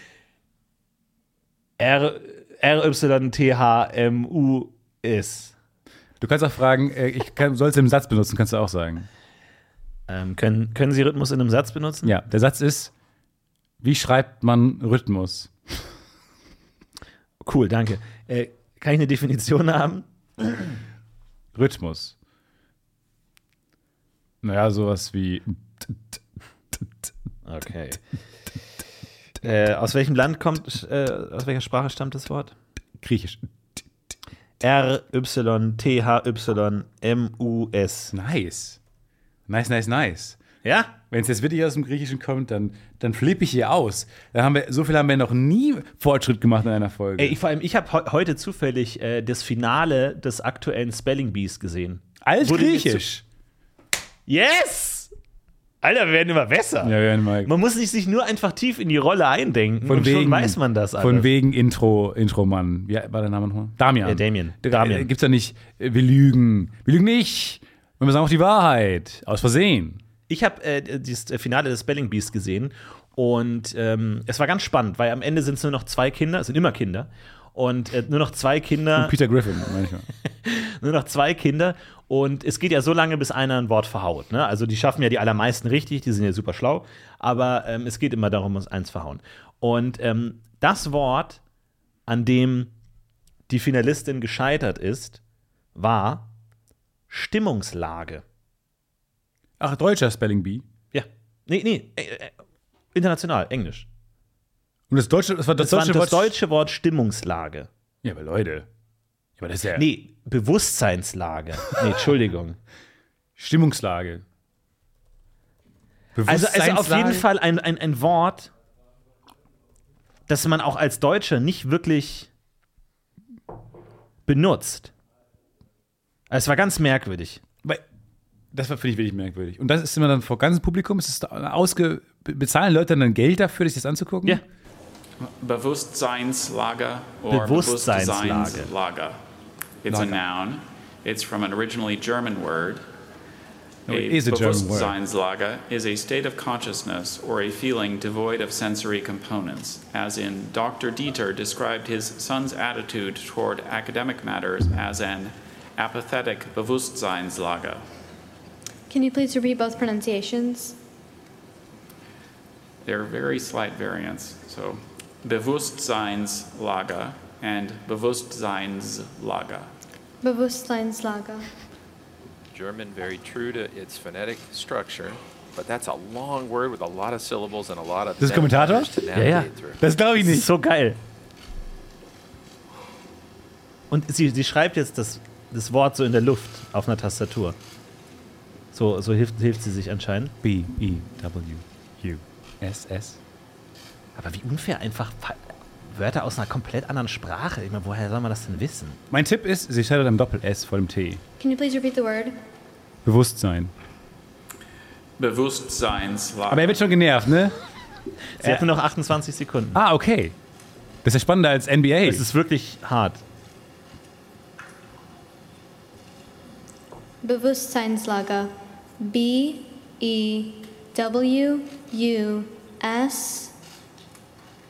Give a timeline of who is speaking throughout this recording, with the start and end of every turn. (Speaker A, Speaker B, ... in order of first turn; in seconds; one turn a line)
Speaker A: 1.8-5.5
Speaker B: 6.2-9.1
Speaker A: 10.1-12.1
Speaker B: 12.0-12.9
Speaker B: 13.8-15.9
Speaker A: 17.4-20.8
Speaker B: 21.6-22.2
Speaker B: 24.4-26.2
Speaker A: 27.4-28.0
Speaker A: 29.4-32.5
Speaker B: 33.0-33.4
Speaker A: 34.6-38.1
Speaker B: 38.1-38.8
Speaker B: 39.5-40.4
Speaker A: 40.6-41.0
Speaker B: 41.1-47.4
Speaker A: 47.2-53.1
Speaker B: 52.2-53.2
Speaker A: 54.3-55.1
Speaker A: 55.8-61.3
Speaker B: 56.8-57.5
Speaker B: 59.9-70.0
Speaker A: 64.0-65.1
Speaker A: 70.3-79.2
Speaker B: 79.0-80.1
Speaker A: 80.2-91.4
Speaker A: 92.1-92.7
Speaker A: 93.5-95.2
Speaker A: 95.8-96.3
Speaker A: 97.1-98.2
Speaker B: 99.6-100.7
Speaker A: 100.9-102.3
Speaker A: 102.9-103.9
Speaker B: 104.9-106.4
Speaker A: 105.6-107.7
Speaker B: 108.0-108.7
Speaker B: 109.4-109.9
Speaker A: 109.8-112.6
Speaker B: 113.4-114.2
Speaker B: 116.2-117.3
Speaker A: 116.3-118.5
Speaker A: 120.3-122.3
Speaker A: 124.3-124.9
Speaker A: 126.3-127.4
Speaker B: 128.5-134.4
Speaker C: 135.2-139.2
Speaker A: 137.3-138.7
Speaker C: 139.8-142.8
Speaker B: 139.9-140.2
Speaker B: 143.9-145.0
Speaker C: 143.9-157.8
Speaker D: 158.9-160.8
Speaker C: 162.8-169.7
Speaker D: 170.2-171.5
Speaker E: 172.5-179.8
Speaker B: 178.2-179.0
Speaker A: 179.2-179.5
Speaker B: 179.8-180.5
Speaker A: 180.2-181.0
Speaker A: 183.9-187.6
Speaker A: 188.7-190.3
Speaker B: 190.4-193.2
Speaker A: 194.2-199.0
Speaker B: 199.1-201.2
Speaker D: 201.4-202.3
Speaker B: 203.0-203.7
Speaker C: 205.2-206.9
Speaker B: 206.5-207.6
Speaker A: 208.4-209.8
Speaker B: 208.4-208.7
Speaker B: 209.7-210.3
Speaker B: 211.0-212.3
Speaker A: 212.0-213.2
Speaker D: 217.2-223.5